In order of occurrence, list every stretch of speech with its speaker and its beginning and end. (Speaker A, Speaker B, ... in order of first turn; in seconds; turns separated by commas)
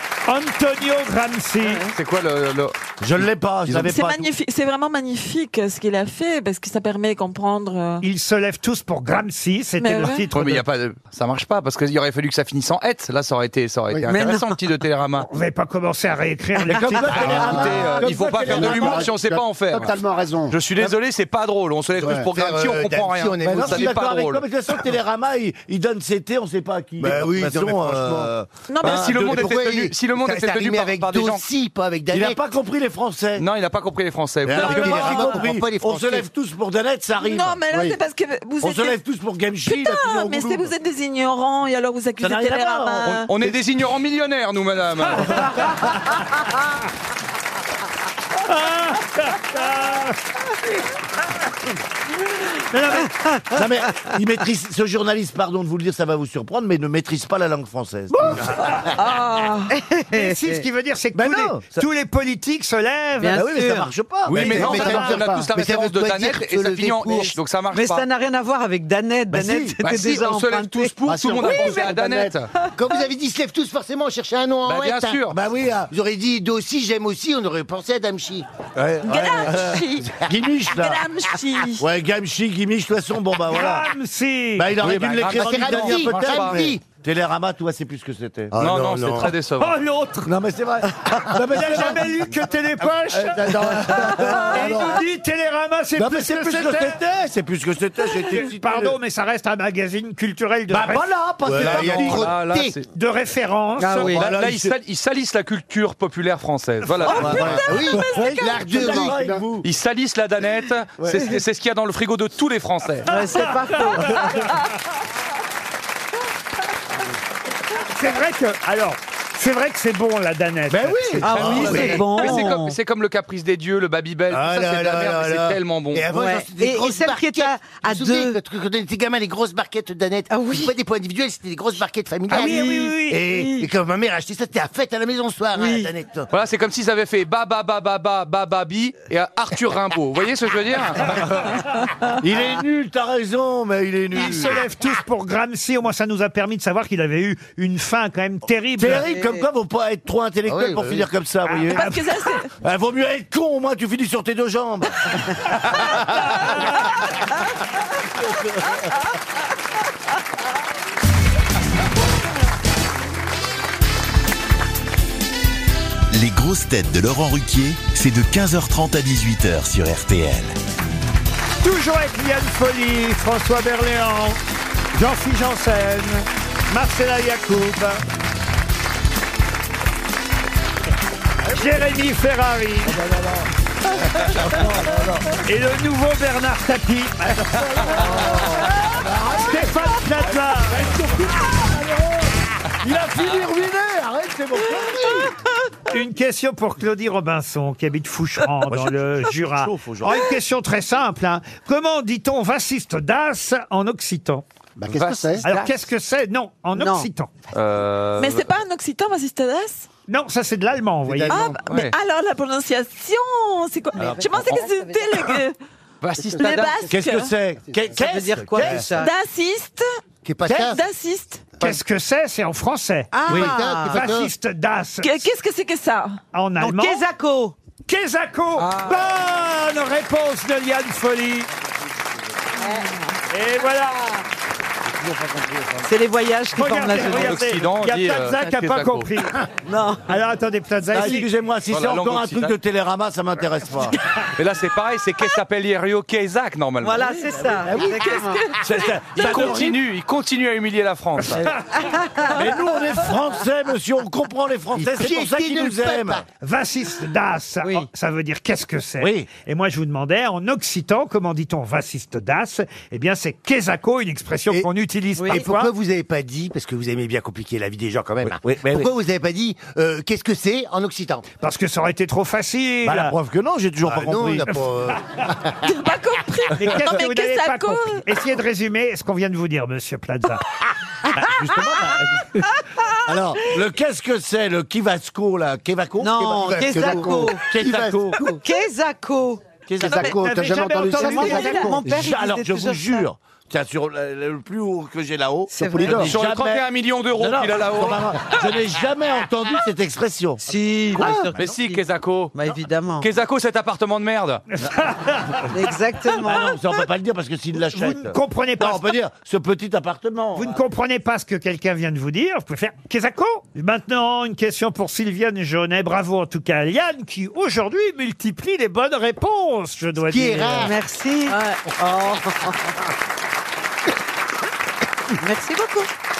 Speaker A: 0.3-1.9, Speaker B: 1.9-2.7, Speaker C: 3.0-4.3, Speaker D: 3.7-8.0, Speaker A: 8.0-10.6, Speaker D: 9.8-10.3, Speaker B: 10.3-15.3, Speaker E: 14.1-14.5, Speaker A: 15.3-17.7, Speaker C: 16.7-19.2, Speaker E: 16.7-17.0, Speaker F: 17.2-20.7, Speaker B: 17.4-20.0, Speaker B: 20.5-24.4, Speaker F: 22.0-22.3, Speaker G: 22.1-24.0, Speaker C: 23.4-29.5, Speaker G: 27.0-32.4, Speaker D: 28.7-29.1, Speaker B: 28.8-31.4, Speaker C: 32.1-33.5, Speaker B: 33.4-35.4, Speaker C: 34.5-37.6, Speaker G: 34.5-36.3, Speaker D: 37.2-39.0, Speaker F: 37.7-38.0, Speaker C: 38.6-40.7, Speaker D: 39.6-43.3, Speaker C: 42.2-43.6, Speaker B: 43.0-45.6, Speaker A: 48.5-50.2, Speaker A: 52.7-53.1, Speaker E: 53.0-54.2, Speaker C: 53.5-58.6, Speaker E: 58.1-58.4, Speaker D: 59.0-59.7, Speaker E: 59.7-60.6, Speaker A: 60.1-63.5, Speaker C: 61.1-61.8, Speaker E: 63.2-63.9, Speaker C: 63.4-65.4, Speaker B: 64.3-68.1, Speaker G: 64.3-67.3, Speaker F: 65.1-65.5, Speaker E: 67.0-71.7, Speaker C: 69.3-69.8, Speaker B: 69.8-72.5, Speaker F: 71.2-72.4, Speaker D: 71.6-71.8, Speaker G: 72.8-75.3, Speaker B: 74.7-75.4, Speaker C: 75.3-75.9, Speaker G: 75.9-78.5, Speaker C: 78.8-81.0, Speaker D: 79.0-81.8, Speaker C: 81.8-83.9, Speaker A: 83.5-85.0, Speaker C: 84.6-89.3, Speaker G: 84.9-86.8, Speaker B: 85.0-86.7, Speaker G: 88.6-89.3, Speaker B: 88.6-89.8, Speaker A: 89.6-90.3, Speaker C: 90.2-92.2, Speaker A: 91.3-97.0, Speaker C: 93.1-95.0, Speaker G: 93.8-94.2, Speaker C: 96.0-99.0, Speaker A: 98.3-101.1, Speaker C: 100.7-102.4, Speaker G: 101.5-102.8, Speaker B: 101.6-102.8, Speaker A: 102.9-104.2, Speaker E: 103.8-104.3, Speaker B: 104.1-107.6, Speaker C: 104.1-104.7, Speaker C: 107.0-109.7, Speaker D: 107.0-108.6, Speaker G: 107.3-109.3, Speaker F: 108.8-109.4, Speaker B: 109.6-113.1, Speaker C: 111.0-111.3, Speaker E: 113.0-114.5, Speaker A: 113.5-114.3, Speaker A: 117.9-122.4, Speaker C: 120.7-122.0, Speaker E: 121.2-122.8, Speaker B: 121.3-126.1, Speaker G: 121.5-122.0, Speaker G: 124.3-136.3, Speaker E: 126.1-128.4, Speaker E: 130.3-130.7, Speaker A: 132.3-133.3, Speaker E: 132.3-133.7, Speaker E: 135.6-135.9, Speaker B: 136.3-141.4, Speaker C: 142.2-144.6, Speaker A: 144.1-149.1, Speaker C: 148.8-151.9, Speaker E: 148.9-149.5, Speaker G: 150.5-151.1, Speaker A: 151.7-152.0, Speaker D: 151.7-152.5, Speaker C: 152.6-155.0, Speaker H: 166.1-170.6, Speaker A: 171.6-174.4, Speaker A: 174.9-178.0, Speaker A: 181.5-183.0, Speaker C: 182.9-185.4, Speaker A: 185.4-188.1, Speaker C: 187.5-195.3, Speaker A: 189.3-191.0, Speaker A: 195.9-204.4, Speaker C: 198.7-200.3, Speaker F: 204.8-205.5, Speaker B: 204.9-205.8, Speaker A: 205.4-207.3, Speaker E: 206.8-207.1, Speaker B: 207.5-208.5, Speaker D: 208.2-209.9, Speaker A: 210.1-211.4, Speaker C: 211.1-211.5, Speaker D: 211.3-215.6, Speaker B: 211.7-211.9, Speaker E: 214.0-215.4, Speaker C: 214.0-214.4, Speaker B: 216.0-216.8, Speaker F: 216.2-216.6, Speaker D: 216.4-217.3, Speaker C: 216.9-218.9, Speaker F: 217.7-218.0, Speaker E: 217.9-219.1, Speaker D: 218.9-219.9, Speaker G: 220.2-220.8, Speaker D: 220.5-221.5, Speaker A: 221.6-223.3, Speaker E: 223.1-224.1, Speaker G: 223.3-224.3, Speaker A: 223.8-225.3, Speaker D: 225.0-226.2, Speaker A: 226.3-227.0, Speaker E: 226.6-227.6, Speaker A: 227.9-231.5, Speaker B: 228.6-229.1, Speaker D: 232.6-233.2, Speaker A: 233.3-234.2, Speaker E: 235.8-237.4, Speaker A: 236.6-239.4, Speaker B: 237.0-239.1, Speaker E: 239.7-240.0, Speaker A: 240.1-241.3, Speaker C: 240.9-244.0, Speaker B: 241.7-242.6, Speaker B: 244.4-247.2, Speaker E: 246.8-248.6, Speaker C: 247.5-249.8, Speaker D: 248.0-248.5, Speaker B: 249.2-251.5, Speaker C: 251.3-251.6, Speaker E: 251.8-252.4, Speaker C: 252.3-256.2, Speaker G: 254.7-256.2, Speaker A: 256.4-265.7, Speaker C: 259.0-259.3, Speaker E: 265.2-265.4, Speaker G: 265.3-271.2, Speaker C: 268.2-268.9, Speaker A: 271.4-273.1, Speaker C: 272.9-274.6, Speaker G: 273.9-275.6, Speaker D: 275.6-278.0, Speaker A: 276.6-280.4, Speaker E: 281.1-281.9, Speaker C: 281.2-282.4, Speaker C: 283.1-288.3, Speaker E: 286.0-287.5, Speaker G: 286.6-288.3, Speaker F: 286.8-287.3, Speaker E: 288.3-290.1, Speaker C: 289.7-290.1, Speaker F: 289.8-291.8, Speaker A: 289.8-291.8, Speaker C: 290.8-291.2, Speaker E: 290.8-293.1, Speaker C: 291.8-301.3, Speaker E: 295.5-296.1, Speaker F: 295.6-296.1, Speaker B: 295.9-298.4, Speaker E: 300.5-303.1, Speaker B: 301.4-302.4, Speaker B: 303.0-304.4, Speaker A: 304.6-305.6, Speaker E: 305.5-306.6, Speaker A: 306.1-306.5, Speaker C: 306.2-310.6, Speaker A: 307.7-308.9, Speaker A: 310.4-320.7, Speaker G: 320.1-320.7, Speaker E: 320.6-322.7, Speaker E: 325.2-325.9